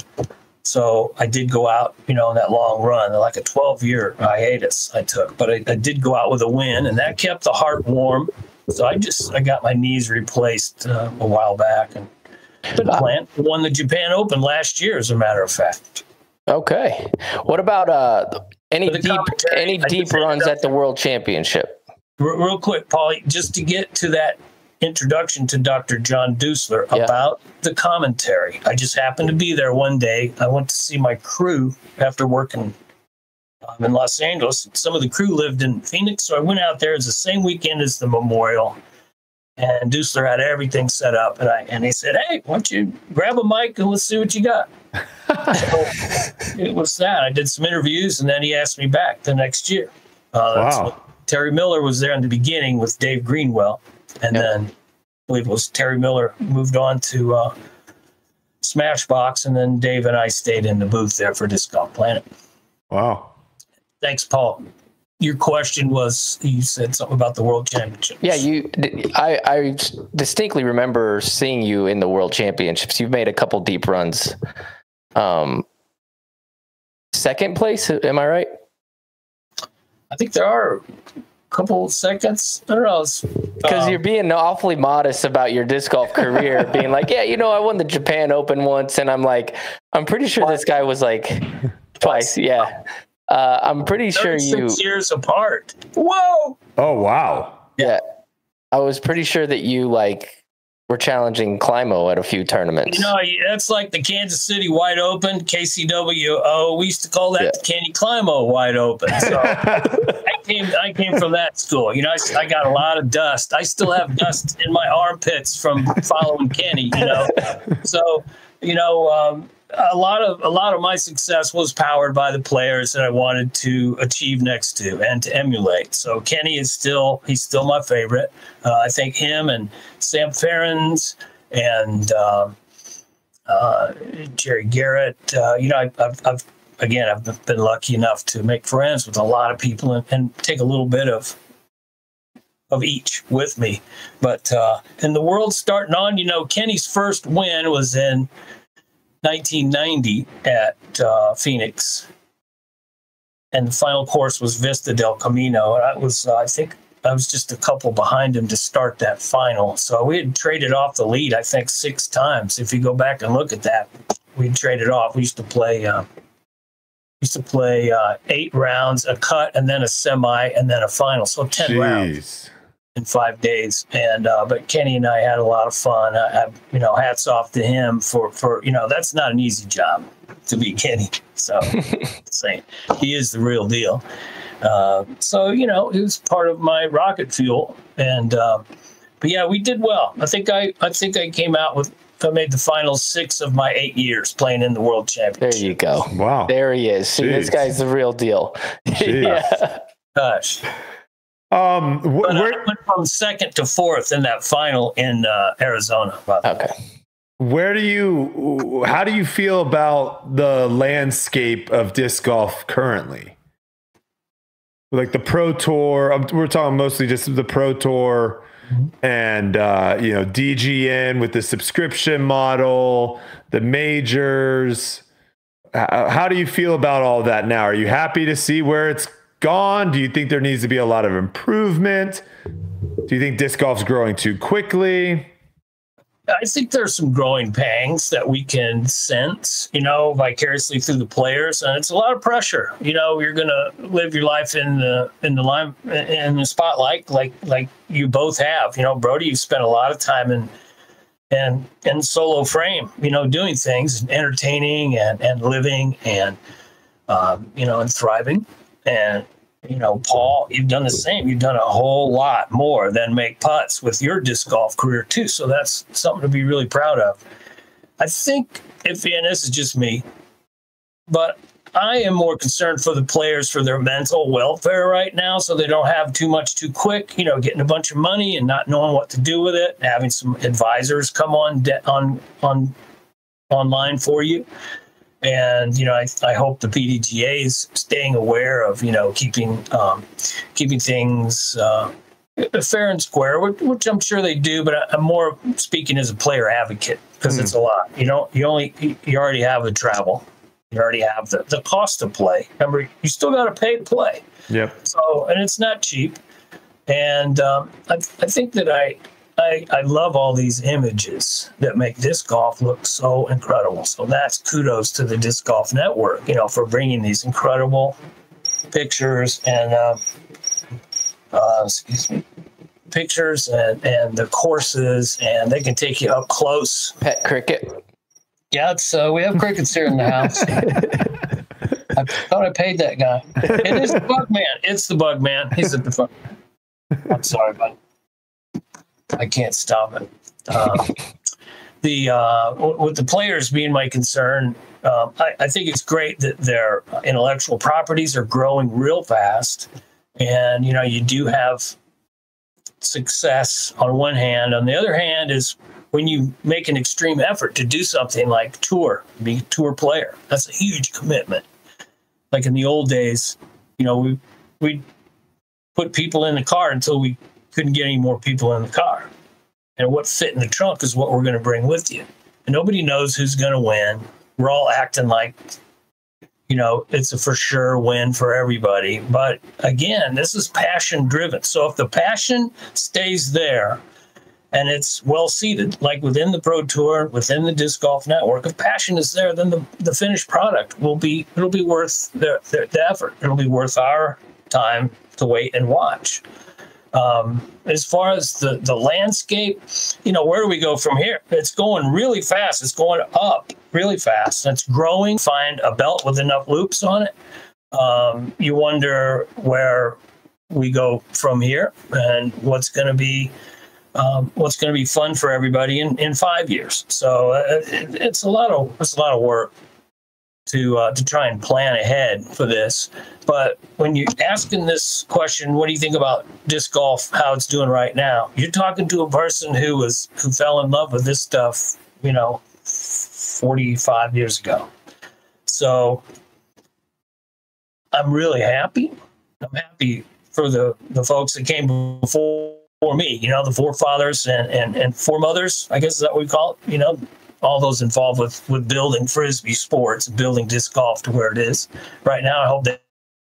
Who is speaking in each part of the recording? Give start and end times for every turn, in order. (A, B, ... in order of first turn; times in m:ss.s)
0:00.6-0:12.1 A
0:12.7-0:16.0 A
0:16.5-0:21.8 B
0:18.9-0:20.6 A
0:22.2-0:32.7 A
0:33.6-0:38.8 A
0:39.6-0:44.7 A
0:45.5-0:54.7 A
0:50.5-0:50.9 C
0:55.3-0:57.5 A
0:58.6-1:02.2 A
1:02.9-1:03.3 C
1:04.0-1:04.6 A
1:05.2-1:08.4 A
1:08.2-1:14.3 B
1:15.1-1:15.6 B
1:17.1-1:18.5 B
1:20.1-1:20.8 A
1:21.5-1:24.0 A
1:23.6-1:34.8 B
1:32.0-1:32.3 A
1:34.1-1:36.6 A
1:36.8-1:37.6 C
1:38.7-1:40.4 B
1:40.9-1:43.1 B
1:42.8-2:12.5 A
1:49.2-1:50.0 C
2:13.5-2:21.4 A
2:22.7-2:28.3 A
2:29.2-2:32.1 A
2:33.5-2:46.0 A
2:47.2-2:52.1 A
2:51.6-2:52.5 C
2:53.0-3:04.0 A
3:04.6-3:08.6 A
3:09.2-3:16.0 A
3:15.4-3:19.8 B
3:16.1-3:16.5 C
3:17.2-3:17.7 C
3:18.9-3:19.5 C
3:20.2-3:20.6 A
3:21.5-3:22.6 C
3:22.2-3:26.5 A
3:26.4-3:26.7 B
3:27.4-3:33.3 C
3:34.9-3:38.4 C
3:39.0-3:45.0 C
3:45.7-3:52.2 C
3:53.1-3:55.3 C
3:56.3-4:10.5 A
4:11.3-4:16.4 A
4:17.1-4:27.2 A
4:28.0-4:30.0 A
4:31.1-4:42.7 A
4:43.5-4:44.4 A
4:45.2-5:04.2 A
4:57.3-4:57.5 C
5:04.5-5:04.8 C
5:04.8-5:06.2 A
5:06.9-5:18.0 A
5:18.7-5:20.0 A
5:21.3-5:22.2 A
5:22.9-5:27.0 A
5:27.0-5:27.8 B
5:28.5-5:30.8 A
5:31.9-5:36.1 A
5:37.1-5:37.8 A
5:39.1-5:40.9 A
5:41.8-5:49.7 A
5:50.2-5:51.8 A
5:52.8-6:01.4 A
6:02.3-6:04.8 A
6:05.8-6:09.1 A
6:09.8-6:15.4 A
6:16.5-6:23.8 A
6:24.5-6:36.2 A
6:36.9-6:47.1 A
6:47.7-6:50.0 A
6:50.5-6:53.3 A
6:53.9-6:59.5 A
7:00.5-7:14.7 A
7:15.5-7:16.0 A
7:17.9-7:32.8 A